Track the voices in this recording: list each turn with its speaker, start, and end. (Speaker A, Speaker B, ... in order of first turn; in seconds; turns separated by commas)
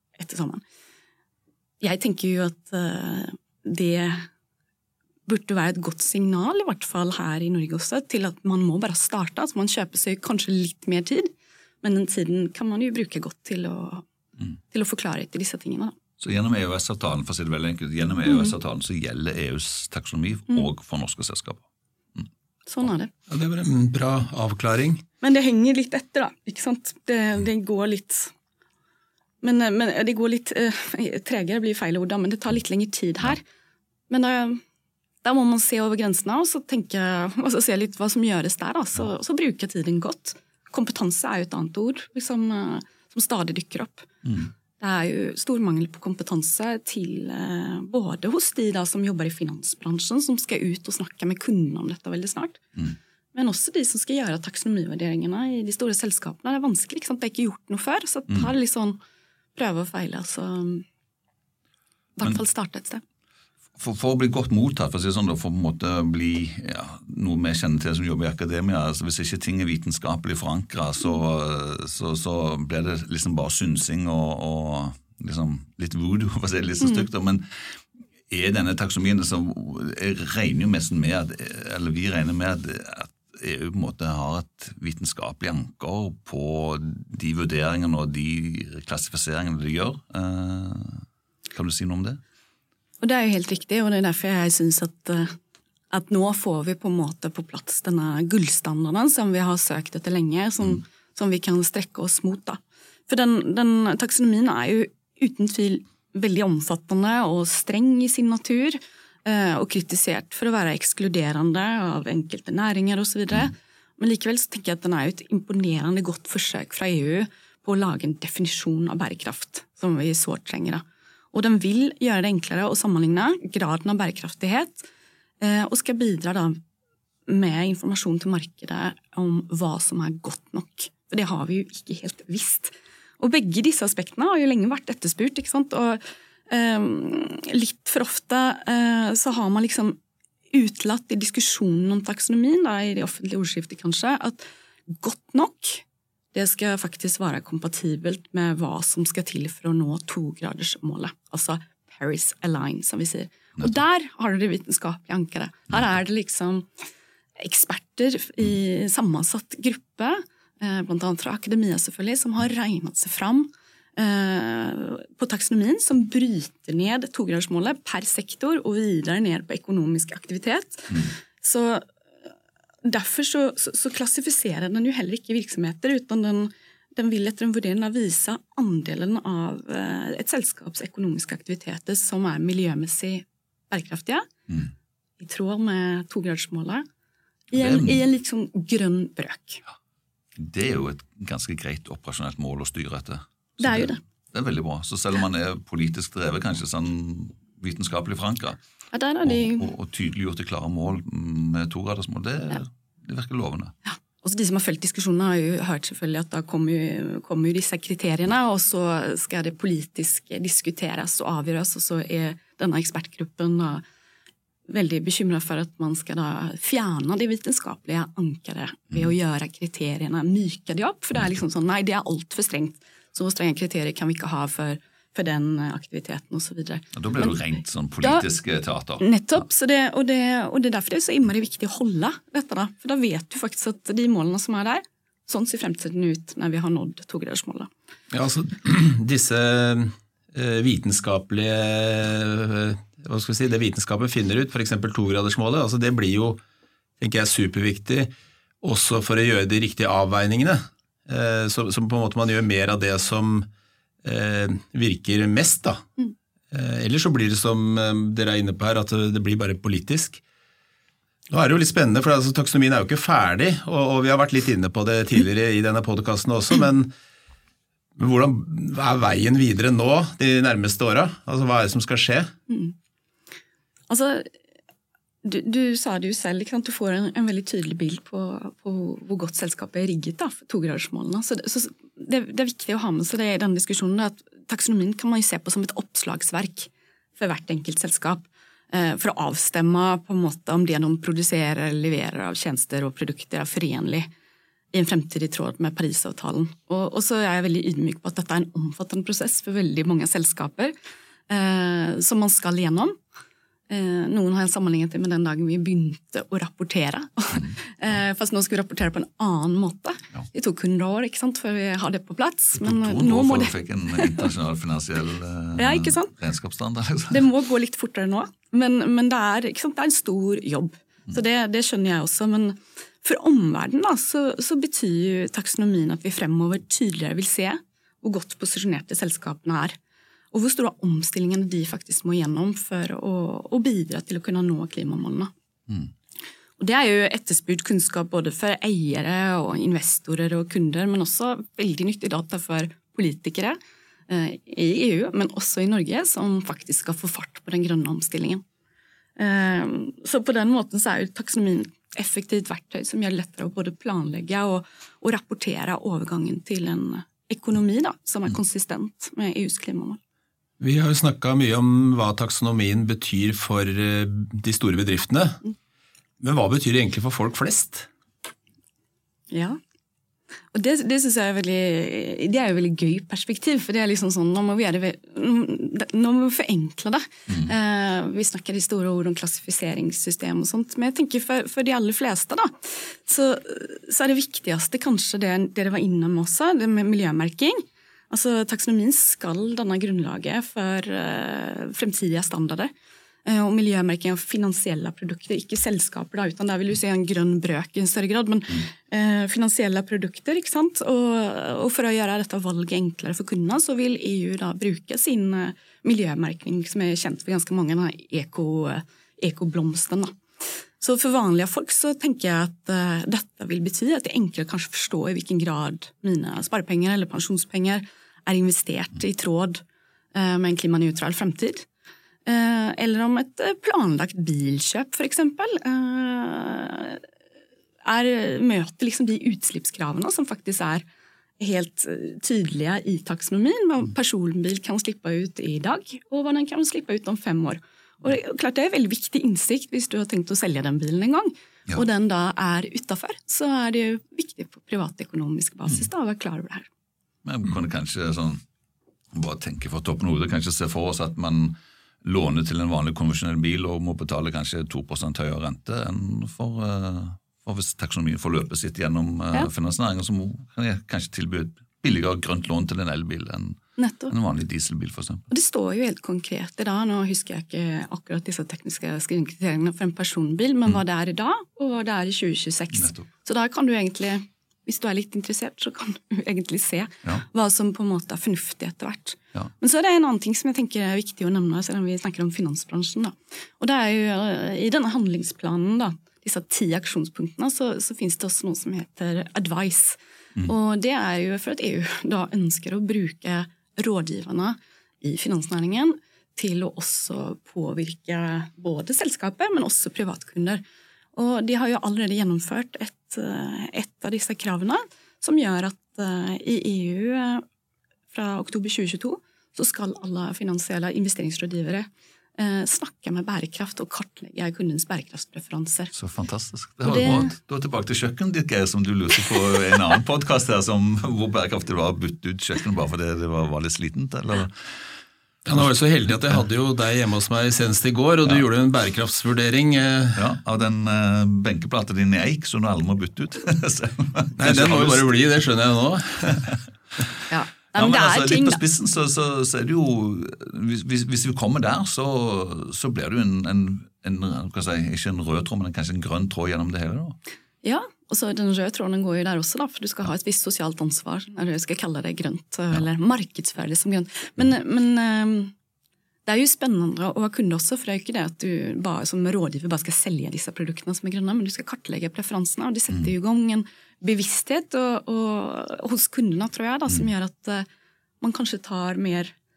Speaker A: 0.2-0.6, Speaker A: 1.8-4.3, Speaker A: 5.3-14.1, Speaker A: 14.7-15.9, Speaker B: 16.2-21.6, Speaker A: 18.3-18.5, Speaker A: 22.7-23.1, Speaker C: 23.3-25.0, Speaker A: 25.2-28.3, Speaker A: 29.4-33.4, Speaker A: 34.1-34.6, Speaker A: 35.2-44.1, Speaker A: 44.8-52.6, Speaker A: 53.3-59.0, Speaker A: 59.6-60.9, Speaker A: 62.2-63.0, Speaker B: 63.8-77.5, Speaker A: 76.8-77.1, Speaker B: 78.3-92.2, Speaker A: 93.0-95.4, Speaker A: 95.9-124.9, Speaker A: 125.4-126.6, Speaker A: 127.3-140.0, Speaker A: 140.5-156.7, Speaker A: 157.4-171.8, Speaker A: 172.8-184.3, Speaker A: 185.2-186.8, Speaker A: 187.5-189.6, Speaker B: 187.5-188.0, Speaker B: 190.4-198.6, Speaker A: 193.6-194.0, Speaker A: 198.9-199.7, Speaker B: 199.2-203.7, Speaker A: 203.8-213.8, Speaker A: 214.7-227.4, Speaker B: 226.9-229.4, Speaker A: 229.0-237.7, Speaker C: 238.1-246.4, Speaker C: 247.0-248.1, Speaker C: 248.6-253.5, Speaker C: 254.0-255.9, Speaker C: 256.5-260.2, Speaker C: 261.3-266.9, Speaker C: 268.0-272.3, Speaker A: 272.5-272.7, Speaker A: 273.9-274.3, Speaker A: 275.2-294.1, Speaker A: 294.7-300.7, Speaker A: 301.3-303.0, Speaker A: 303.7-314.3, Speaker B: 312.6-317.3, Speaker A: 315.6-316.1, Speaker A: 317.1-329.8, Speaker A: 330.3-335.3, Speaker A: 336.6-343.6, Speaker A: 344.1-348.4, Speaker A: 349.2-360.0, Speaker C: 360.6-365.4, Speaker C: 366.2-367.9, Speaker A: 369.3-369.6, Speaker A: 370.5-392.7, Speaker A: 393.2-419.6, Speaker A: 420.1-421.7, Speaker A: 422.3-427.0, Speaker A: 427.9-430.9, Speaker A: 431.4-446.7, Speaker B: 447.2-448.4, Speaker B: 449.1-465.3, Speaker A: 463.8-464.1, Speaker A: 465.3-500.6, Speaker B: 472.8-473.1, Speaker A: 501.1-507.4, Speaker A: 508.1-515.9, Speaker B: 515.9-524.7, Speaker A: 516.8-517.3, Speaker C: 525.5-530.2, Speaker B: 530.1-535.1, Speaker C: 534.4-536.5, Speaker A: 537.3-538.6, Speaker B: 537.7-547.2, Speaker A: 547.6-555.5, Speaker A: 556.3-567.7, Speaker A: 568.2-569.3